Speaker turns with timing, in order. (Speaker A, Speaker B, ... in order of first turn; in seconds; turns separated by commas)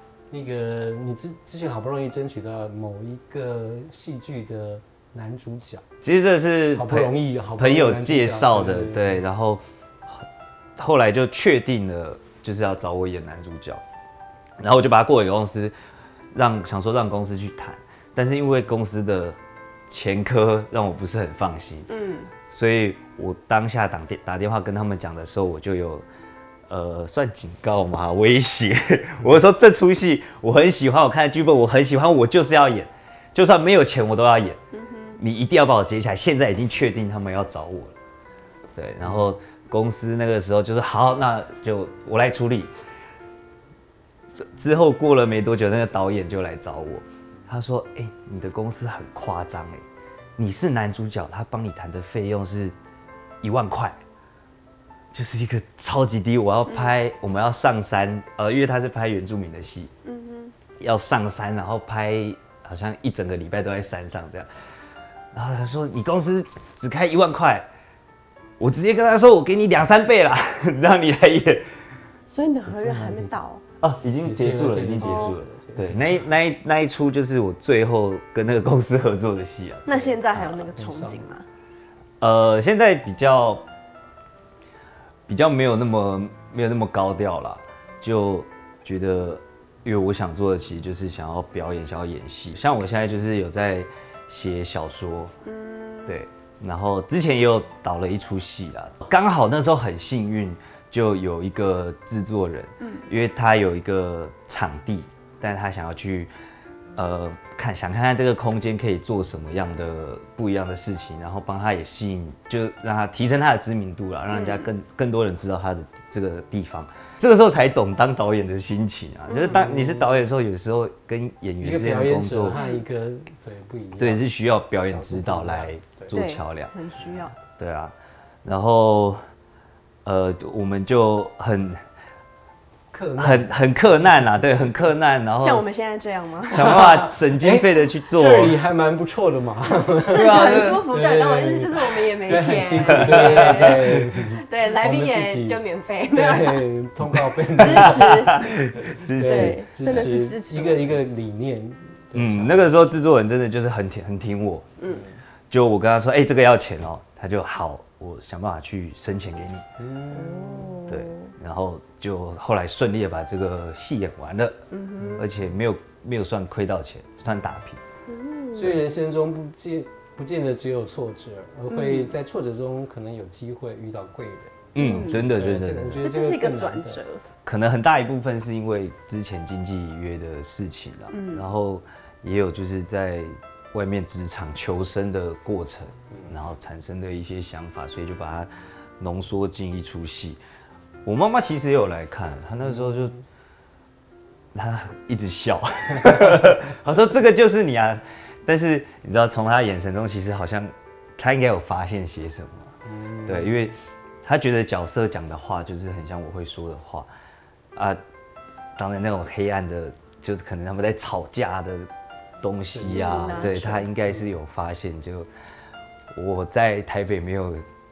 Speaker A: 0.3-5.8, Speaker B: 6.0-13.8, Speaker A: 6.7-9.2, Speaker B: 14.6-15.7, Speaker B: 16.3-21.9, Speaker C: 21.9-22.3, Speaker B: 22.5-26.1, Speaker B: 26.7-34.6, Speaker C: 34.7-35.2, Speaker B: 35.2-38.0, Speaker B: 38.8-42.7, Speaker A: 39.0-39.3, Speaker B: 44.4-49.8, Speaker B: 50.4-52.8, Speaker B: 53.4-54.0, Speaker B: 55.1-59.9, Speaker C: 60.0-60.5, Speaker B: 60.8-64.5, Speaker B: 65.3-67.7, Speaker B: 68.6-71.7, Speaker C: 72.3-73.6, Speaker A: 72.7-73.3, Speaker B: 73.8-80.7, Speaker A: 74.2-76.2, Speaker C: 75.0-75.4, Speaker C: 79.9-81.5, Speaker A: 80.7-81.2, Speaker B: 82.2-83.7, Speaker B: 85.3-95.3, Speaker C: 95.4-96.2, Speaker B: 96.1-106.3, Speaker C: 102.8-103.1, Speaker B: 107.0-122.6, Speaker C: 114.3-114.7, Speaker C: 119.3-119.7, Speaker A: 119.5-120.2, Speaker A: 121.6-124.3, Speaker C: 122.5-122.8, Speaker B: 124.0-126.7, Speaker A: 124.8-126.2, Speaker C: 126.1-127.4, Speaker B: 127.5-129.2, Speaker B: 130.1-131.8, Speaker A: 132.9-134.5, Speaker B: 133.2-135.7, Speaker C: 135.4-136.9, Speaker B: 136.5-138.6, Speaker A: 136.6-152.8, Speaker C: 140.0-146.7, Speaker B: 140.1-140.9, Speaker B: 142.9-143.8, Speaker C: 147.6-148.5, Speaker B: 147.6-150.1, Speaker C: 149.2-151.0, Speaker B: 152.2-154.7, Speaker C: 154.8-155.1, Speaker B: 155.5-159.6, Speaker A: 159.8-160.8, Speaker C: 160.1-161.3, Speaker B: 160.9-164.6, Speaker C: 164.7-165.2, Speaker A: 165.0-165.3, Speaker B: 165.2-167.8, Speaker C: 168.1-168.8, Speaker A: 168.5-177.0, Speaker C: 171.7-172.1, Speaker B: 174.7-176.0, Speaker C: 174.8-175.3, Speaker C: 176.0-177.2, Speaker B: 177.4-190.4, Speaker C: 181.1-181.5, Speaker A: 186.1-186.4, Speaker B: 191.1-193.2, Speaker A: 192.8-193.2, Speaker B: 194.5-202.7, Speaker A: 202.8-203.7, Speaker B: 203.2-207.1, Speaker B: 207.8-208.0, Speaker B: 208.8-211.9, Speaker B: 212.4-215.3, Speaker A: 212.7-214.3, Speaker C: 212.9-213.8, Speaker B: 216.1-217.7